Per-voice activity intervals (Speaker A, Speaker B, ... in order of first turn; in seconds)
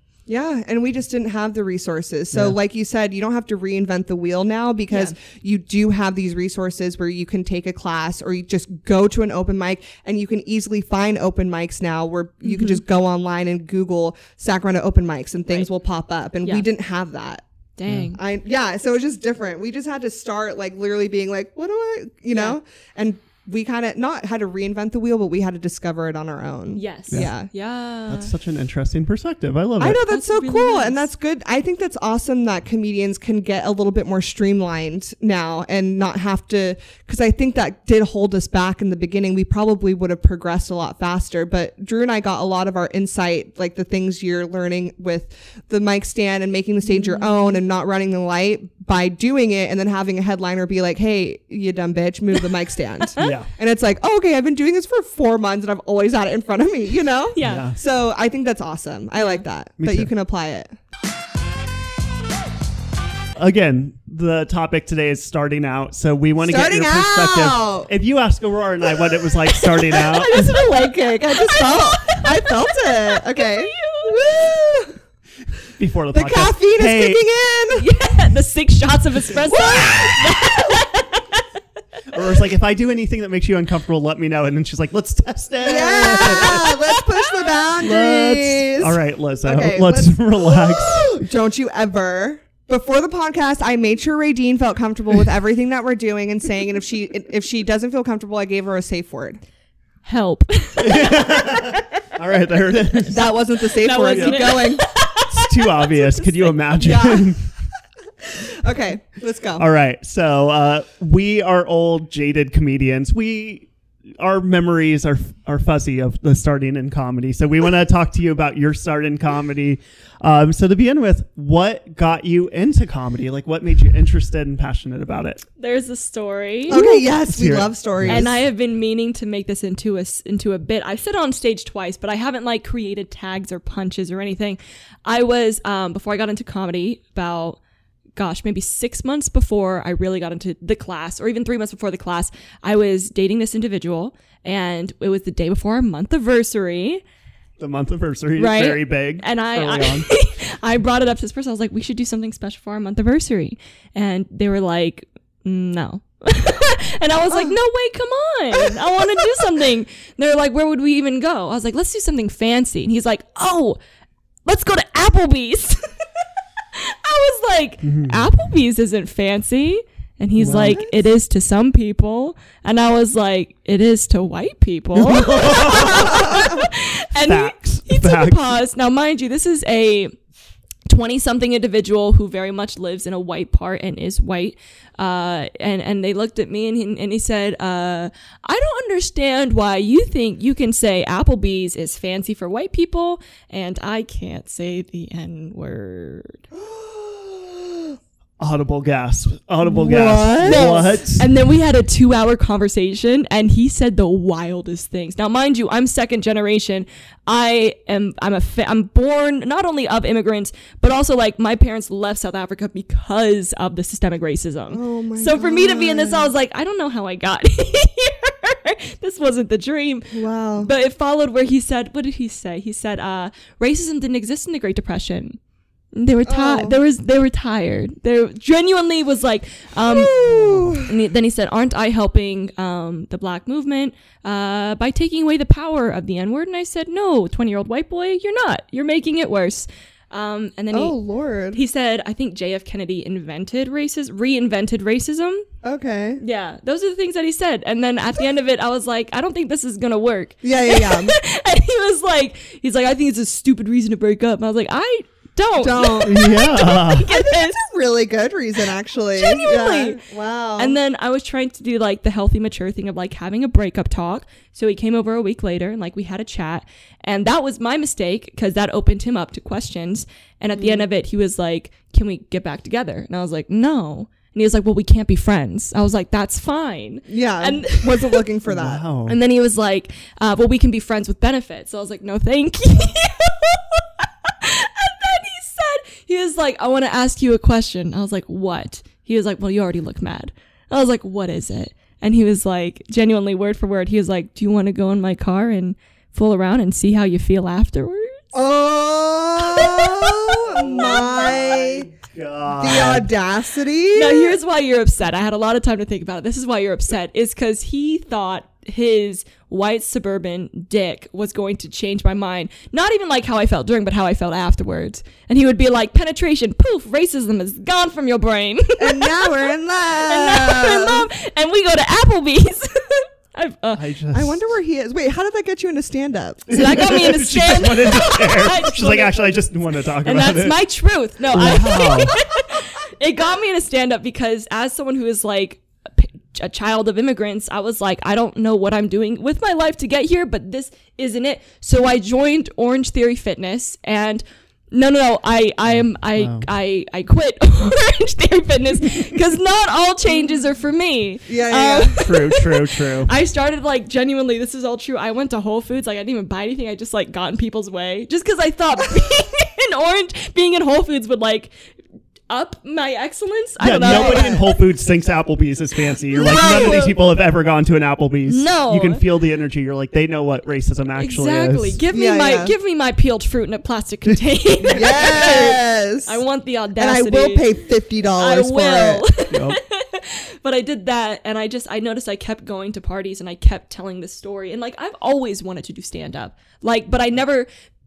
Speaker A: 0.3-17.4, 18.1-27.5, 29.8-60.7, 66.4-67.9, 69.9-75.0, 76.1-77.8, 79.5-80.7, 85.6-99.4, 103.1-104.8, 106.8-107.3, 108.3-109.6, 126.7-128.4, 157.3-157.6, 170.5-170.9, 196.5-197.9, 199.6-200.6, 214.7-216.3, 220.1-220.7, 226.2-226.8, 229.8-230.9, 240.7-241.6, 245.6-246.2, 250.4-251.1, 255.6-256.2, 257.1-260.7, 270.6-270.8, 277.1-278.8, 298.3-301.9, 302.5-304.4, 318.8-321.1, 324.1-326.5, 351.3-352.0, 363.8-364.4, 366.1-366.9, 371.9-372.5, 374.7-376.1, 376.8-379.0
Speaker B: 12.4-12.8, 17.8-18.2, 26.7-28.3, 30.1-31.1, 46.9-47.6, 57.3-57.7, 59.2-59.4, 69.9-74.2, 77.7-81.4, 100.0-101.9, 103.8-107.2, 125.6-127.0, 128.1-137.6, 138.2-147.0, 148.4-163.8, 164.4-165.9, 166.7-180.1, 180.9-196.4, 200.4-225.4, 225.9-241.0, 241.5-245.5, 246.2-257.7, 259.2-260.0, 260.6-278.2, 279.1-298.2, 299.5-300.1, 303.9-323.9, 326.5-329.4, 330.0-361.5, 362.3-364.4, 366.1-367.0, 368.3-369.0, 371.0-377.6, 378.2-387.5
Speaker C: 17.9-18.1, 28.1-30.0, 53.2-53.5, 57.4-57.8, 59.8-60.1, 63.4-70.5, 75.8-77.2, 82.1-86.7, 87.8-91.2, 100.8-103.2, 104.0-104.6, 105.3-107.4, 109.6-125.4, 126.7-128.3, 147.6-150.1, 167.8-168.3, 170.4-170.8, 174.9-176.6, 177.2-178.6, 198.4-201.3, 230.3-230.7, 256.0-257.1, 278.5-279.2, 300.4-303.1, 323.7-324.4, 326.5-330.6, 331.3-332.2, 345.6-346.5, 352.0-353.1, 363.6-371.8, 379.3-379.6